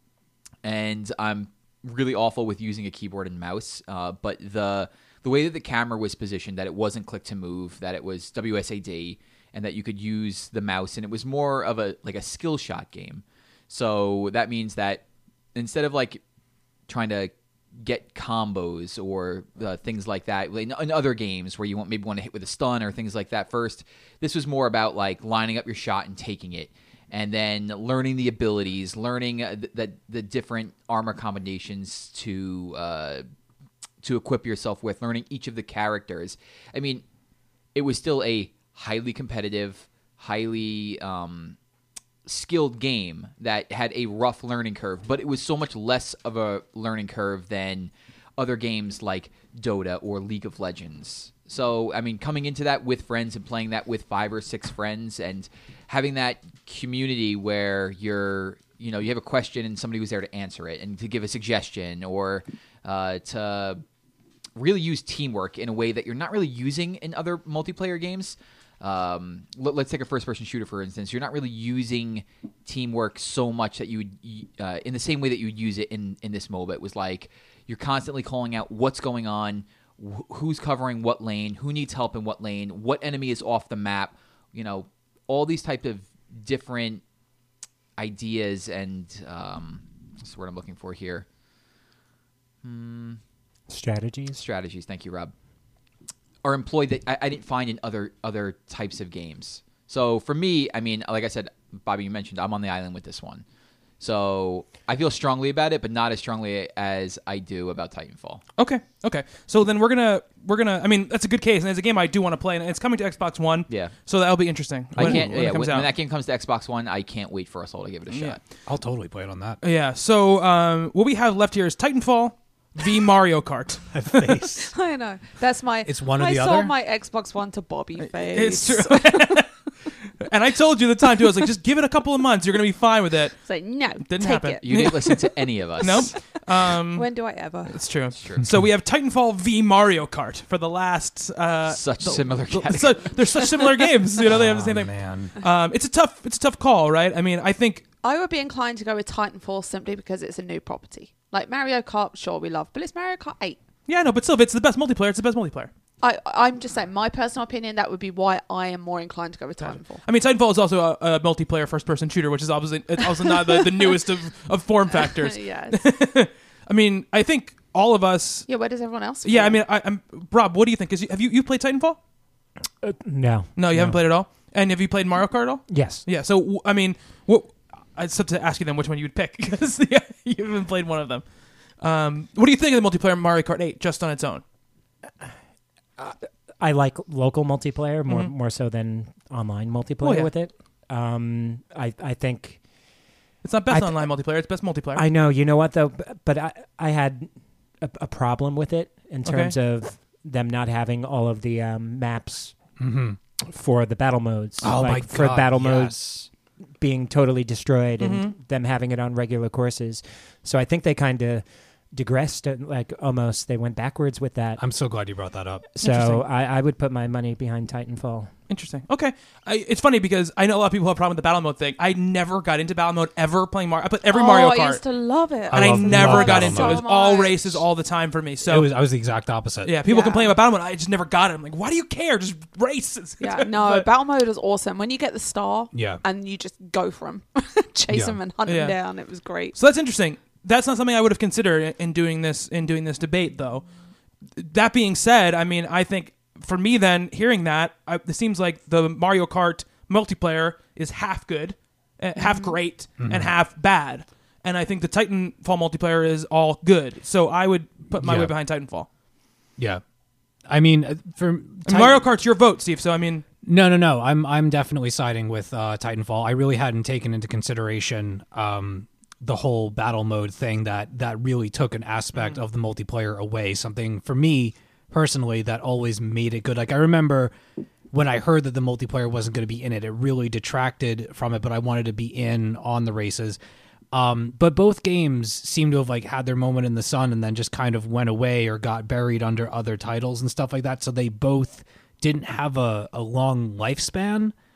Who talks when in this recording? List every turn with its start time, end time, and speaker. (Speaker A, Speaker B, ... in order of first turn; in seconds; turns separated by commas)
Speaker A: 0.6-15.0, Speaker A: 15.6-16.2, Speaker A: 16.9-33.2, Speaker A: 34.0-37.0, Speaker A: 37.7-41.6, Speaker A: 42.2-63.8, Speaker A: 64.6-87.0, Speaker A: 88.0-91.3, Speaker A: 92.6-93.2, Speaker B: 93.7-94.4, Speaker A: 94.3-95.3, Speaker A: 96.4-103.4, Speaker A: 104.0-108.4, Speaker C: 108.6-115.9, Speaker A: 113.7-113.9, Speaker A: 115.0-118.4, Speaker D: 115.0-115.3, Speaker C: 118.1-118.4, Speaker D: 118.7-119.6, Speaker C: 119.6-123.9, Speaker D: 123.9-124.7, Speaker E: 124.7-129.4, Speaker D: 125.8-126.7, Speaker C: 128.2-129.5, Speaker C: 130.2-133.4, Speaker E: 133.4-135.1, Speaker C: 134.1-137.1, Speaker A: 134.6-136.1, Speaker E: 135.9-136.2, Speaker E: 136.9-137.8, Speaker C: 137.7-147.8, Speaker A: 138.1-138.5, Speaker A: 141.7-143.1, Speaker D: 144.2-145.3, Speaker E: 148.0-153.6, Speaker C: 153.9-155.7, Speaker E: 156.0-160.0, Speaker C: 160.0-168.5, Speaker E: 163.5-163.8, Speaker E: 164.9-165.8, Speaker E: 168.5-169.6, Speaker C: 169.2-172.0, Speaker B: 172.8-174.0, Speaker C: 173.6-181.2, Speaker B: 175.7-176.1, Speaker C: 181.8-184.4, Speaker B: 186.0-192.6, Speaker C: 188.1-188.3, Speaker C: 190.0-190.3, Speaker C: 193.4-195.1, Speaker B: 193.7-194.1, Speaker B: 194.9-202.6, Speaker C: 199.2-199.6, Speaker D: 202.8-203.2, Speaker B: 203.4-214.6, Speaker D: 204.6-206.2, Speaker C: 208.0-208.3, Speaker D: 214.6-215.7, Speaker B: 215.8-218.3, Speaker C: 215.8-216.2, Speaker C: 218.5-224.8, Speaker E: 224.1-227.6, Speaker D: 225.5-226.9, Speaker C: 225.5-228.7, Speaker D: 228.4-229.8, Speaker C: 229.6-233.9, Speaker E: 229.8-230.3, Speaker E: 233.2-239.6, Speaker D: 235.7-236.0, Speaker D: 237.9-238.2, Speaker C: 238.5-238.8, Speaker C: 239.5-243.7, Speaker C: 244.4-258.9, Speaker E: 252.2-252.5, Speaker D: 253.0-253.3, Speaker D: 258.0-258.3, Speaker D: 260.5-262.1, Speaker C: 261.7-263.2, Speaker D: 263.4-277.3, Speaker D: 277.9-283.4, Speaker D: 283.9-294.3